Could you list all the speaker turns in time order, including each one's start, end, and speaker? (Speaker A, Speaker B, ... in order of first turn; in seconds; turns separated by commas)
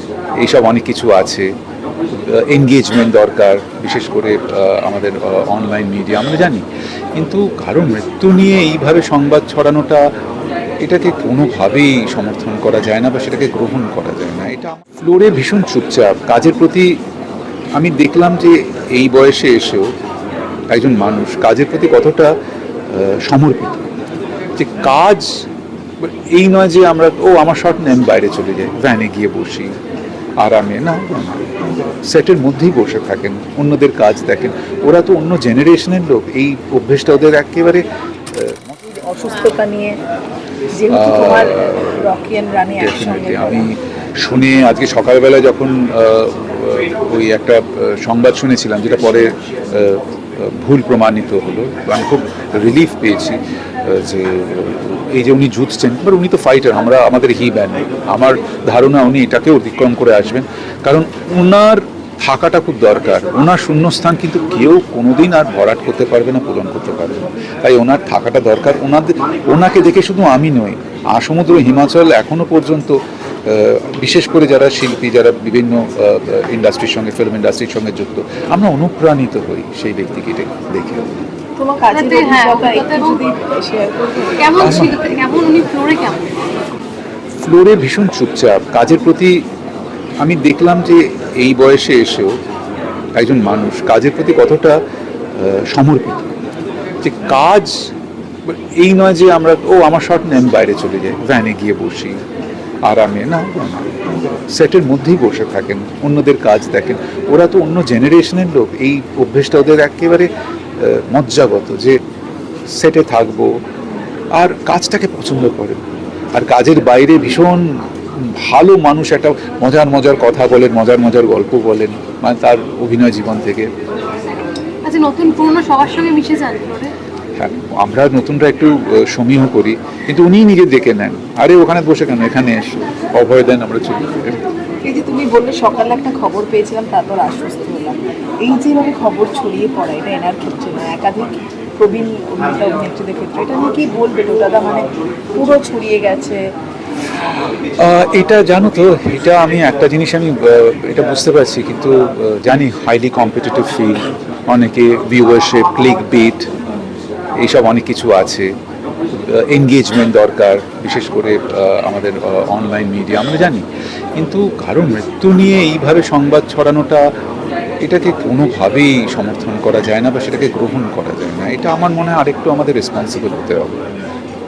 Speaker A: 0.4-1.5, Speaker A: 2.3-6.6, Speaker A: 7.2-10.0, Speaker A: 10.8-16.9, Speaker A: 17.8-19.9, Speaker A: 20.7-22.3, Speaker A: 22.9-23.9, Speaker A: 24.6-25.3, Speaker A: 26.0-29.7, Speaker A: 30.4-31.5, Speaker A: 32.0-38.8, Speaker B: 38.9-40.0, Speaker B: 40.7-43.7, Speaker A: 40.9-42.1, Speaker A: 42.8-81.1, Speaker B: 81.6-85.0, Speaker C: 81.9-83.2, Speaker C: 84.4-86.5, Speaker A: 84.6-85.0, Speaker A: 87.5-89.4, Speaker A: 90.2-92.3, Speaker A: 93.2-94.8, Speaker A: 95.3-96.3, Speaker A: 97.0-97.7, Speaker A: 98.5-102.2, Speaker A: 102.9-112.0, Speaker A: 112.8-113.5, Speaker A: 114.4-115.8, Speaker A: 116.3-117.7, Speaker A: 118.2-123.7, Speaker C: 124.8-126.9, Speaker A: 127.4-134.4, Speaker B: 134.8-146.4, Speaker A: 147.8-156.5, Speaker A: 157.4-158.5, Speaker A: 159.2-163.7, Speaker A: 164.2-167.0, Speaker A: 167.8-173.8